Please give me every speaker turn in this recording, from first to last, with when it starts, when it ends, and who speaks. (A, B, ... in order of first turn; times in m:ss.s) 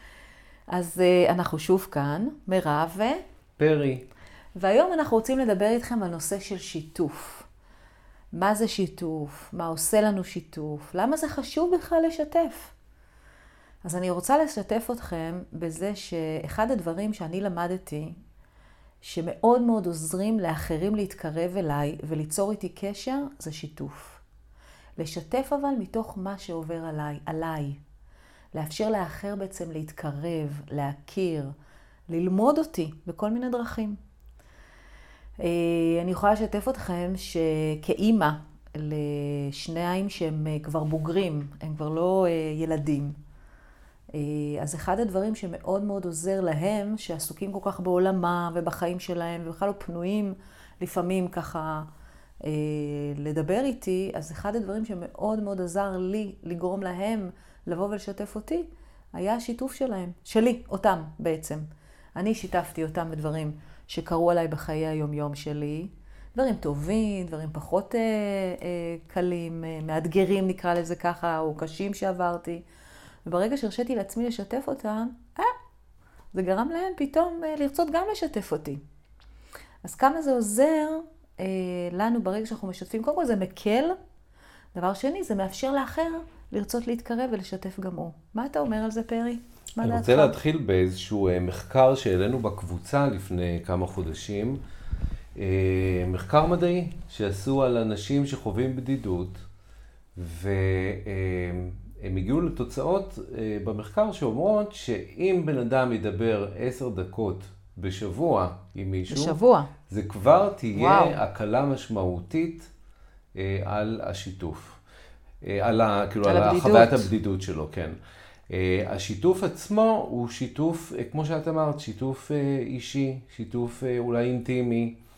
0:00.7-0:03.2 A
0:03.6-0:04.1 B
0:04.6-0:07.5 A
0:08.3-0:12.7 A
0:13.8-0:18.2 A
0:19.0-0:24.2 A
0:25.0-0:27.8 A
0:28.5-0:31.5 A
0:32.1-0:34.0 A
0:35.4-0:43.2 A
0:44.1-0:51.9 A
0:52.4-1:01.6 A
1:02.2-1:12.6 A
1:13.2-1:15.5 A
1:16.3-1:18.8 A
1:19.8-1:23.9 A
1:24.7-1:30.3 A
1:29.8-1:34.6 B
1:35.4-1:39.4 B
1:40.2-1:49.4 B
1:49.1-1:49.7 A
1:49.9-1:52.7 B
1:50.7-1:51.2 A
1:53.4-1:54.8 B
1:55.4-1:58.0 B
1:56.2-1:57.1 A
1:58.5-2:05.0 B